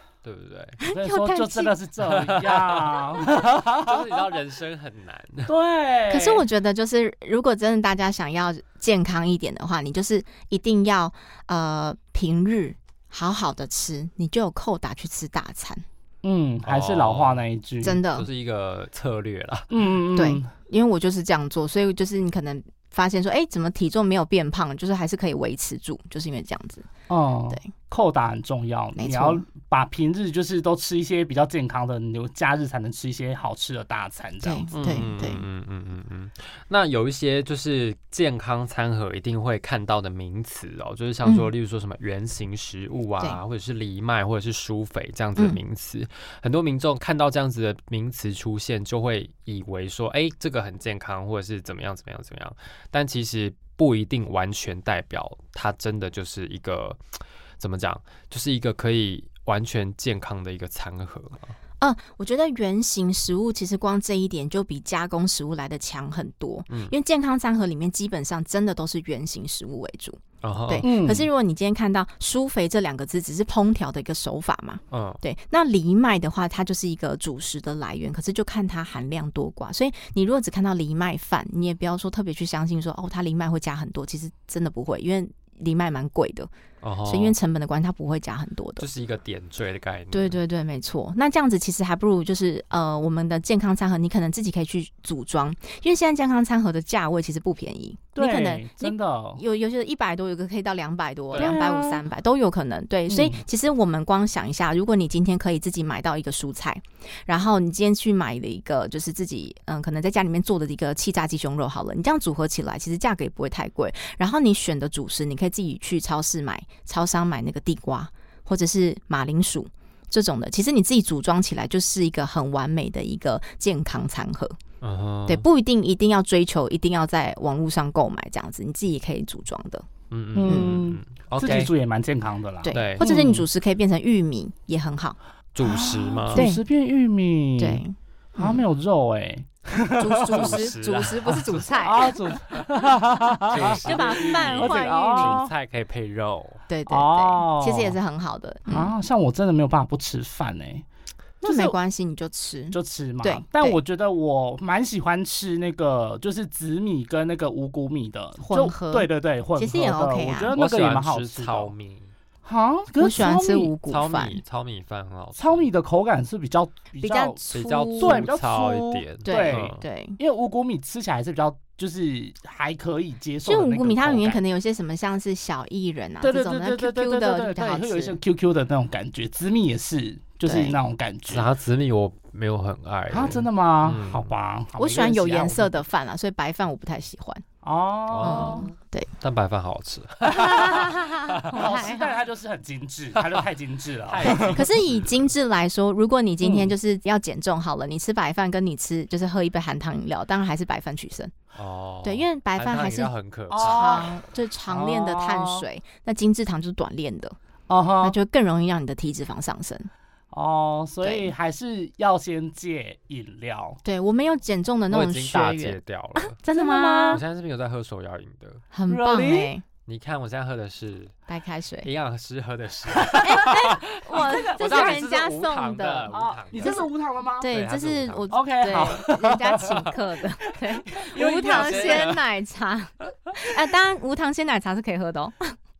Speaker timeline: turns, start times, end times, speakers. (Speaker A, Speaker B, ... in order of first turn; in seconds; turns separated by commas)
Speaker A: 0.2-0.8, Speaker B: 0.8-1.7, Speaker C: 0.9-4.3, Speaker A: 2.0-5.5, Speaker C: 5.5-6.4, Speaker B: 6.1-15.8, Speaker C: 16.2-18.0, Speaker A: 16.6-17.4, Speaker B: 17.8-18.2, Speaker A: 18.1-19.7, Speaker C: 19.7-20.5, Speaker B: 20.1-26.9, Speaker C: 27.1-34.7, Speaker B: 29.0-29.4, Speaker B: 34.4-35.4, Speaker A: 34.7-57.0, Speaker B: 41.2-41.5, Speaker A: 57.6-61.5, Speaker B: 61.8-86.5, Speaker A: 70.4-70.9, Speaker C: 70.8-71.3, Speaker A: 74.9-75.2, Speaker A: 86.8-87.3, Speaker B: 87.0-88.9, Speaker A: 88.8-90.4, Speaker B: 90.1-124.6, Speaker C: 98.1-99.4, Speaker A: 101.3-101.6, Speaker C: 101.3-102.0, Speaker C: 103.1-103.4, Speaker A: 124.8-125.4, Speaker B: 125.3-129.8, Speaker A: 130.1-131.7, Speaker C: 130.3-133.4, Speaker B: 130.4-130.8, Speaker B: 132.6-135.2, Speaker A: 132.7-133.3, Speaker A: 135.5-136.4, Speaker C: 135.6-137.8, Speaker B: 136.3-136.6, Speaker B: 137.6-138.6, Speaker C: 138.4-140.6, Speaker B: 140.0-142.2, Speaker A: 140.3-142.6, Speaker C: 141.8-145.5, Speaker A: 143.5-146.6, Speaker B: 143.6-145.4, Speaker B: 146.7-148.9, Speaker C: 146.9-148.0, Speaker C: 148.7-150.8, Speaker C: 151.4-151.7, Speaker B: 151.4-153.8, Speaker C: 152.7-161.7, Speaker B: 158.4-160.5, Speaker A: 160.5-162.1, Speaker C: 162.4-163.7, Speaker B: 163.0-164.4, Speaker A: 163.9-165.7, Speaker C: 165.3-167.4, Speaker B: 167.0-168.3, Speaker A: 167.5-169.8, Speaker C: 168.0-174.4, Speaker B: 169.2-170.2, Speaker B: 173.4-178.2, Speaker C: 176.2-181.5, Speaker B: 180.4-180.8, Speaker A: 181.3-184.3, Speaker C: 183.1-185.8, Speaker B: 184.8-187.4, Speaker C: 187.6-188.7, Speaker A: 188.1-191.6, Speaker B: 188.2-189.1, Speaker B: 190.2-192.2, Speaker C: 191.5-194.6, Speaker A: 194.1-195.3, Speaker B: 194.4-201.3, Speaker C: 196.4-196.7, Speaker A: 201.5-204.1, Speaker B: 202.0-207.4, Speaker C: 203.5-205.6, Speaker C: 207.7-208.2, Speaker B: 208.0-209.9, Speaker C: 210.3-213.8, Speaker B: 211.0-211.3, Speaker B: 213.8-217.2, Speaker A: 214.9-216.4, Speaker C: 216.5-217.2, Speaker A: 217.1-218.7, Speaker B: 218.7-219.6, Speaker C: 218.9-219.5, Speaker A: 219.8-221.2, Speaker B: 221.3-221.9, Speaker A: 221.8-226.9, Speaker C: 223.1-223.6, Speaker B: 223.2-235.5, Speaker C: 224.1-225.1, Speaker C: 226.1-227.5, Speaker A: 227.5-229.0, Speaker C: 228.3-229.9, Speaker C: 230.9-232.2, Speaker A: 231.4-232.2